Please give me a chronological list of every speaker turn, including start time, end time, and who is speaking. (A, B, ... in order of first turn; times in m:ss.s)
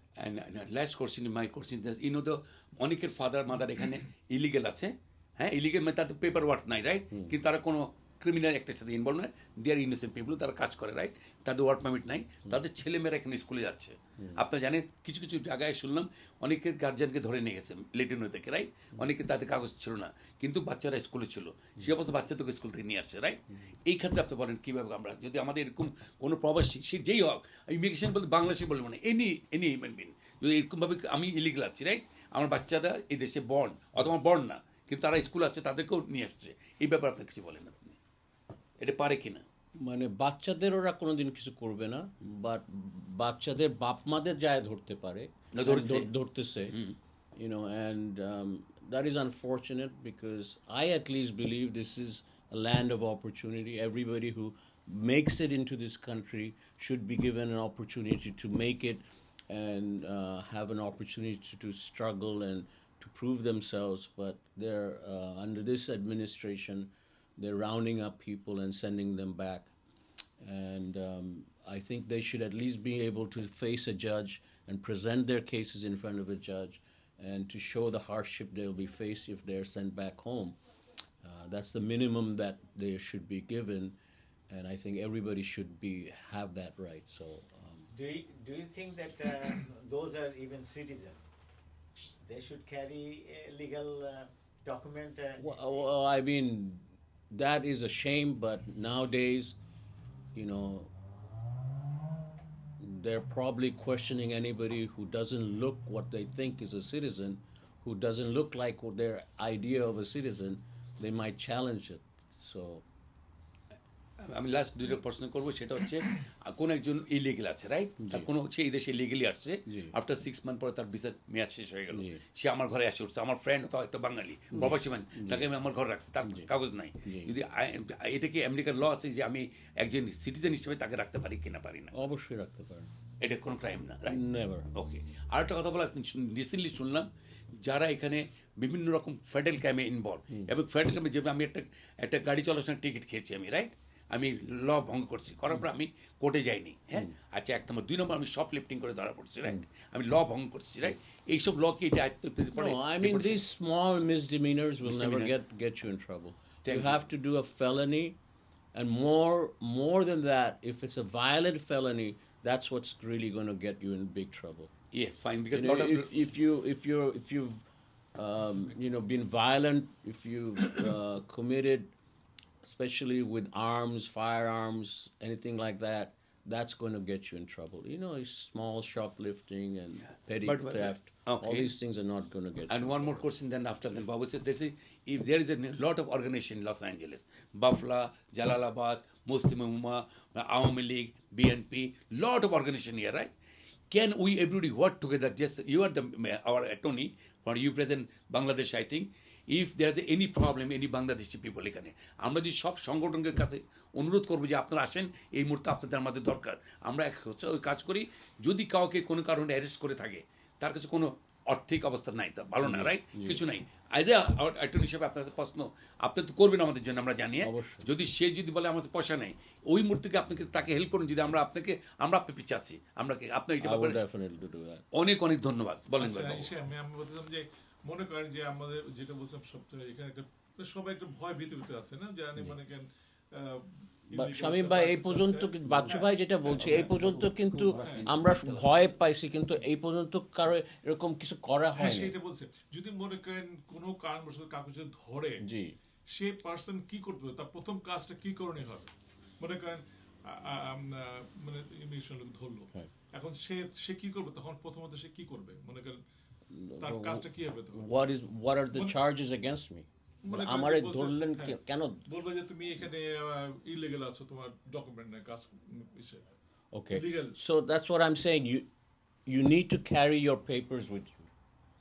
0:00.2-0:38.0 A
0:14.2-0:14.4 B
0:38.8-0:39.4 A
0:39.8-0:46.8 B
0:45.5-0:46.1 A
0:46.7-0:47.0 A
0:47.4-1:09.7 B
1:10.4-1:20.6 B
1:21.2-1:24.0 B
1:24.5-1:27.9 B
1:27.9-1:31.2 C
1:32.2-1:35.6 C
1:35.4-1:39.6 B
1:40.3-1:40.9 B
1:42.8-1:52.8 B
1:54.2-2:11.9 A
1:58.0-1:58.3 B
1:59.6-1:59.9 B
2:01.9-2:02.2 B
2:04.5-2:05.5 B
2:06.2-2:06.5 B
2:07.0-2:07.3 B
2:11.9-2:12.9 B
2:13.2-2:14.2 A
2:14.1-2:14.7 B
2:14.7-2:33.4 A
2:32.5-2:38.2 B
2:34.8-2:35.3 A
2:36.6-2:37.0 A
2:38.7-2:44.7 B
2:44.9-2:46.1 A
2:45.5-2:47.6 B
2:48.2-2:51.9 B
2:52.6-3:03.3 B
3:00.4-3:01.7 A
3:02.7-3:13.3 A
3:13.9-3:44.0 A
3:32.6-3:33.4 B
3:37.4-3:37.9 B
3:43.6-3:44.8 B
3:44.9-3:46.5 A
3:46.0-3:57.0 D
3:54.1-4:02.2 B
3:57.8-3:58.1 D
4:01.8-4:05.4 D
4:05.4-4:05.8 B
4:06.1-4:16.0 D
4:16.5-4:22.0 B
4:16.8-4:17.9 D
4:20.2-4:21.6 D
4:22.1-4:26.2 D
4:26.7-4:28.7 B
4:26.9-4:27.4 D
4:29.2-4:31.3 B